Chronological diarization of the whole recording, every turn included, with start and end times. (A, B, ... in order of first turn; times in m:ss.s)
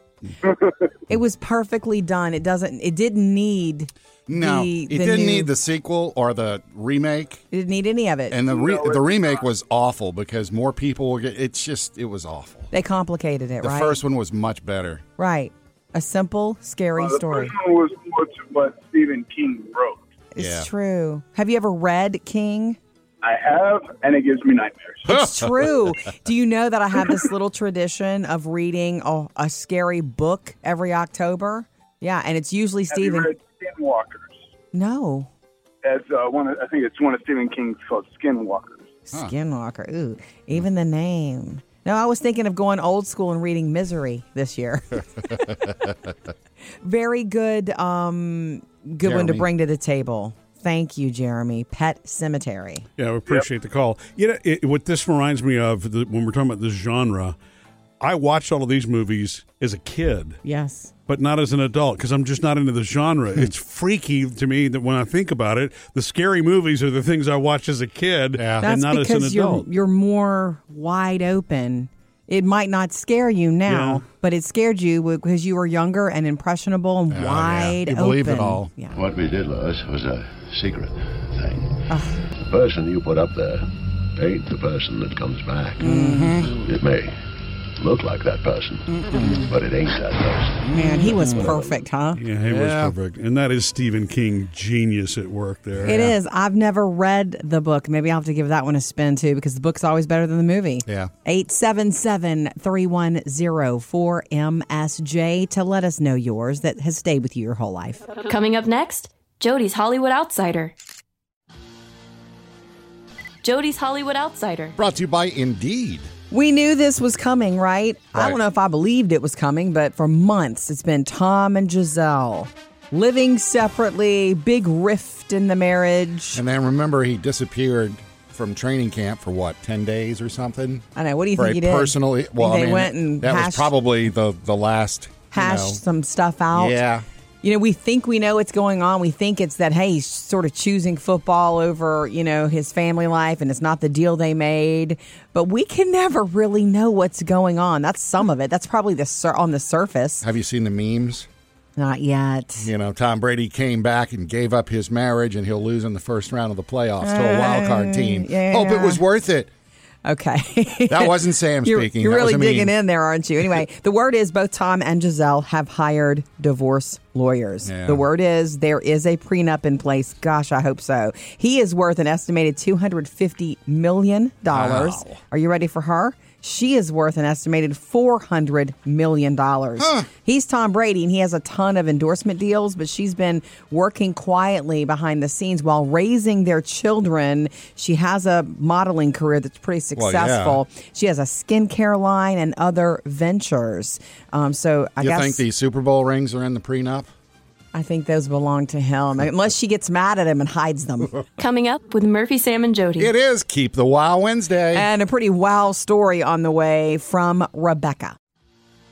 0:00.4-0:00.9 A
0:01.1-0:05.5 B
0:04.3-0:07.4 C
0:07.5-0:08.4 B
0:08.3-0:12.7 C
0:08.4-0:09.5 A
0:12.7-0:14.0 B
0:13.6-0:15.0 C
0:15.2-0:17.5 B
0:17.0-0:20.1 A
0:20.3-0:22.8 B
0:20.4-0:20.7 C
0:23.2-0:25.1 A
0:25.1-0:33.3 B
0:25.1-0:25.7 C
0:32.9-0:34.4 A
0:34.7-0:35.3 B
0:35.8-0:39.0 A
0:39.1-0:45.0 B
0:46.8-0:52.9 B
0:49.0-0:49.5 C
0:53.0-0:57.4 D
0:58.0-1:00.4 D
1:00.4-1:00.9 B
1:01.1-1:09.6 D
1:08.4-1:08.7 C
1:08.6-1:19.0 B
1:13.7-1:14.0 D
1:17.1-1:18.7 C
1:18.9-1:30.8 E
1:21.9-1:22.2 B
1:25.8-1:26.5 B
1:25.8-1:26.6 C
1:29.1-1:29.4 C
1:29.1-1:29.4 B
1:30.6-1:31.6 C
1:30.7-1:32.2 B
1:31.4-1:31.7 E
1:32.2-1:36.1 D
1:32.4-1:33.0 C
1:35.8-1:48.1 B
1:48.2-1:50.7 F
1:53.4-1:54.8 F
1:54.8-1:56.1 C
1:56.3-2:06.4 B
1:58.1-1:58.4 C
2:06.4-2:15.8 C
2:11.0-2:13.7 B
2:15.3-2:16.8 B
2:16.5-2:17.0 C
2:17.4-2:30.3 B
2:30.2-2:31.3 C
2:31.8-2:32.7 B
2:32.6-2:39.5 C
2:37.0-2:39.0 B
2:40.1-3:15.4 B
2:40.9-2:42.8 C
2:47.6-2:48.0 C
2:54.5-2:55.2 C
2:59.8-3:00.1 C
3:10.0-3:10.6 C
3:15.0-3:17.1 C
3:17.7-3:21.2 B
3:21.4-3:23.1 F
3:23.0-3:24.9 C
3:24.7-3:28.2 B